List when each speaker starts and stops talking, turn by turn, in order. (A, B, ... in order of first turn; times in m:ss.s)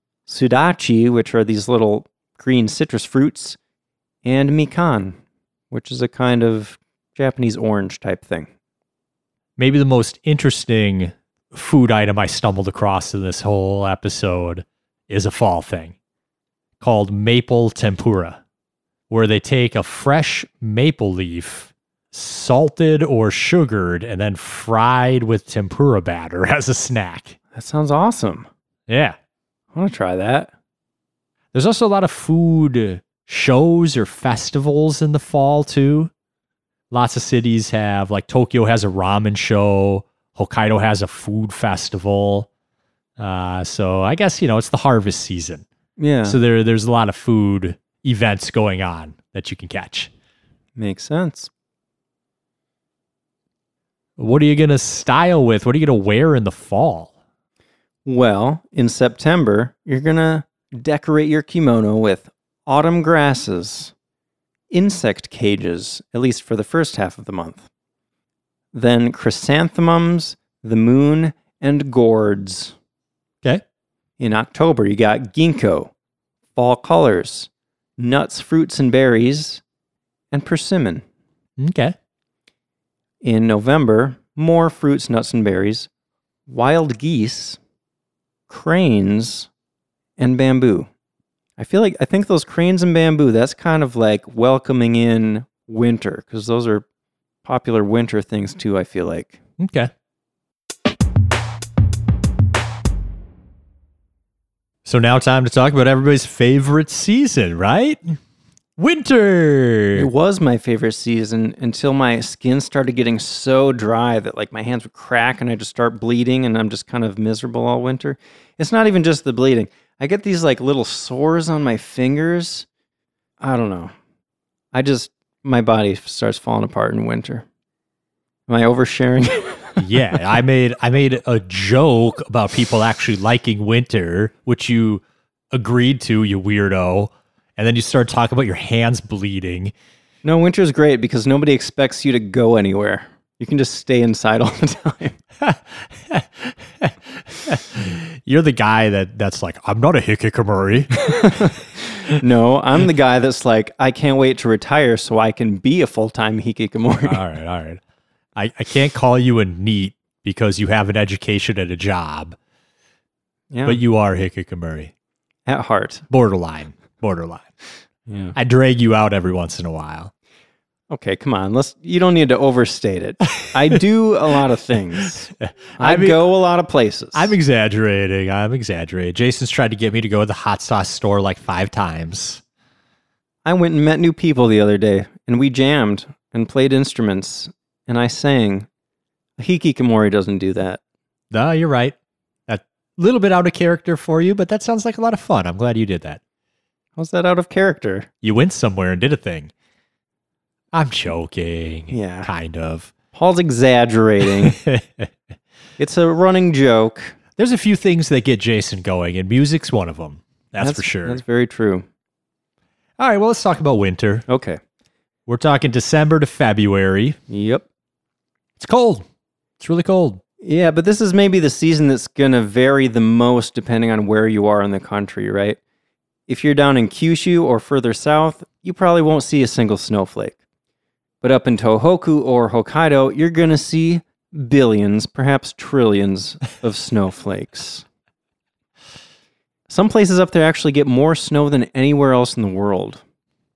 0:00.3-0:03.6 A
0:04.2-0:05.2 A
0:05.7-0:08.5 A
0:09.6-0:15.9 B
0:16.8-0:18.4 B
0:19.1-0:27.4 B
0:27.5-0:28.5 A
0:28.9-0:29.2 B
0:29.7-0:30.5 A
0:31.5-0:36.1 B
0:36.9-0:42.5 B
0:43.2-0:45.6 B
0:46.0-0:46.4 A
0:46.2-0:50.1 B
0:50.8-0:51.5 A
0:54.2-0:57.1 B
0:58.0-1:03.9 A
1:04.7-1:07.6 A
1:08.7-1:12.7 A
1:14.2-1:15.9 A
1:16.5-1:19.6 A
1:20.3-1:21.0 A
1:21.6-1:21.9 B
1:23.2-1:25.9 A
1:26.5-1:27.6 A
1:28.5-1:29.5 A
1:30.2-1:30.9 A
1:31.6-1:36.8 A
1:37.4-1:39.4 A
1:39.6-1:39.9 B
1:44.8-1:48.2 B
1:48.8-1:50.1 B
1:49.9-2:02.7 A
2:03.4-2:03.9 A
2:04.7-2:07.4 A
2:08.5-2:10.2 A
2:09.8-2:19.7 B
2:20.2-2:25.2 A
2:25.4-2:31.5 B
2:30.9-2:37.2 A
2:37.0-2:37.8 B
2:38.3-2:42.4 B
2:43.5-2:43.8 A
2:43.6-2:44.9 B
2:45.5-2:46.0 A
2:46.1-2:47.5 B
2:48.1-2:48.3 A
2:48.3-2:50.1 B
2:50.9-2:57.3 A
2:53.4-2:53.8 B
2:55.4-2:56.3 B
2:57.1-3:02.4 B
3:03.4-3:08.7 A
3:09.4-3:10.8 A
3:11.3-3:11.9 B
3:12.5-3:16.2 B
3:17.0-3:18.1 A
3:18.2-3:19.5 B
3:20.7-3:22.9 B
3:21.9-3:22.3 A
3:23.1-3:24.6 A
3:24.2-3:25.1 B
3:25.8-3:27.2 A
3:27.4-3:31.2 B
3:30.6-3:31.8 A
3:33.0-3:34.2 B
3:34.3-3:34.6 A
3:35.3-3:37.2 B
3:37.3-3:37.6 A
3:38.6-3:39.0 B
3:39.6-3:40.2 B
3:40.4-3:45.6 A
3:46.3-3:50.4 A
3:51.2-3:57.8 A
3:59.7-4:03.0 A